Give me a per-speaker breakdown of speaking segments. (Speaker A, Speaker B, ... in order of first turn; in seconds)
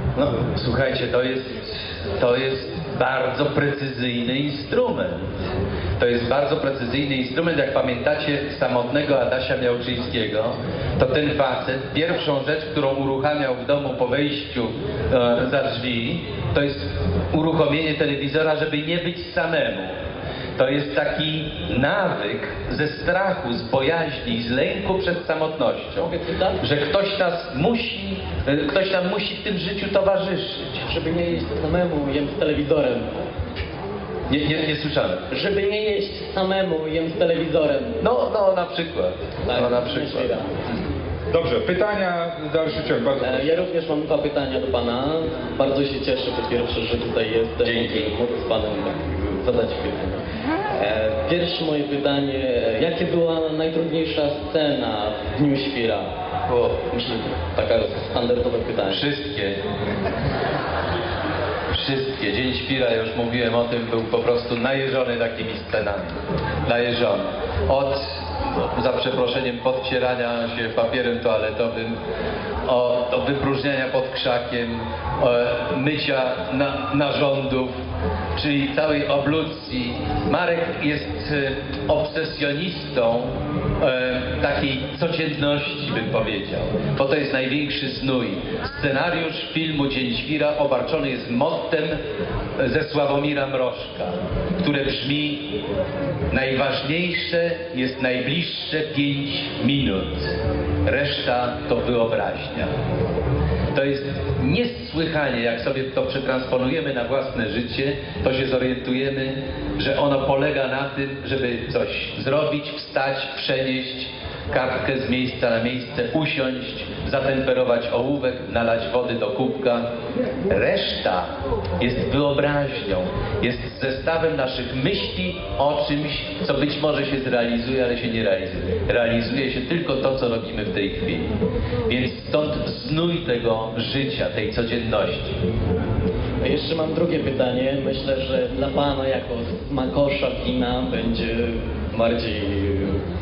Speaker A: 0.1-5.3, 6.0-19.9, 20.6-30.8, 34.3-35.2, 38.0-40.4, 47.6-48.1, 56.5-56.9, 58.9-59.6, 61.7-72.0, 72.6-77.7, 78.3-92.0, 92.6-95.5, 96.3-102.7, 103.7-119.9, 120.5-121.3, 121.8-131.3, 131.9-135.4
Speaker B: 26.0-26.6, 30.9-33.2, 35.3-38.0, 39.5-40.5, 43.2-50.2, 50.7-56.1, 56.9-59.0, 136.4-143.0
Speaker C: 41.3-43.6